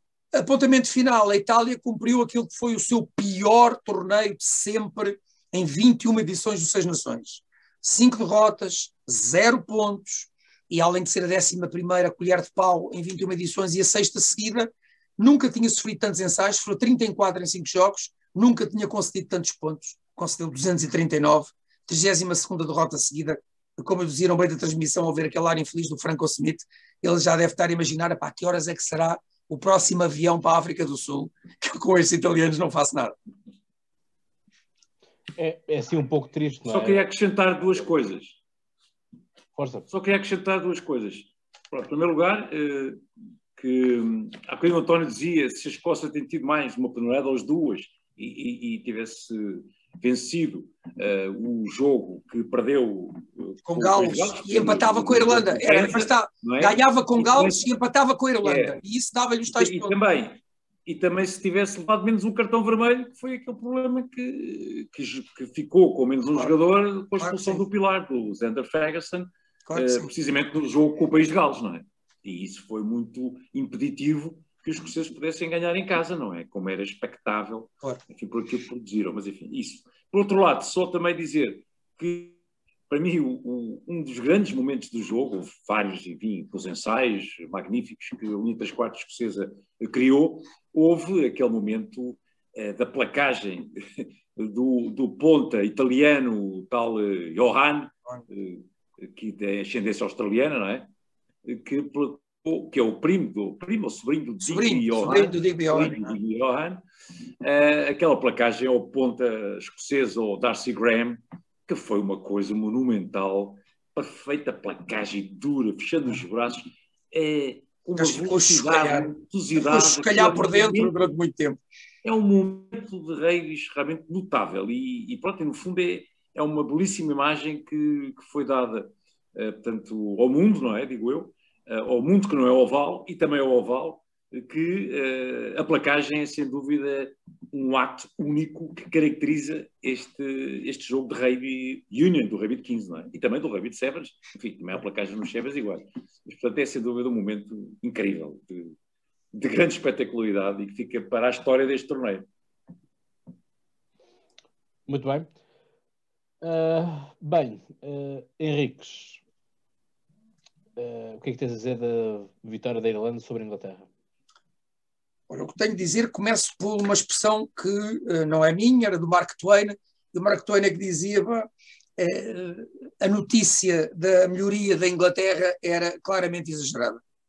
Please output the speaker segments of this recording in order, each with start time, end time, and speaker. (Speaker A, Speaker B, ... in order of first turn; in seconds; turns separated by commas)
Speaker A: 0.3-33.1, Speaker B: 35.4-37.0, Speaker C: 36.7-38.4, Speaker B: 39.6-39.9, Speaker C: 39.9-43.0, Speaker C: 43.6-57.6, Speaker A: 53.6-60.0, Speaker C: 58.4-58.8, Speaker C: 59.5-82.4, Speaker A: 67.2-67.6, Speaker A: 69.7-70.1, Speaker C: 82.9-100.9, Speaker C: 101.4-106.8, Speaker A: 104.4-106.1, Speaker C: 107.4-120.9, Speaker A: 118.0-121.6, Speaker C: 122.0-148.8, Speaker C: 149.3-152.2, Speaker B: 154.9-155.3, Speaker B: 156.4-159.2, Speaker B: 160.8-163.9, Speaker A: 165.3-177.0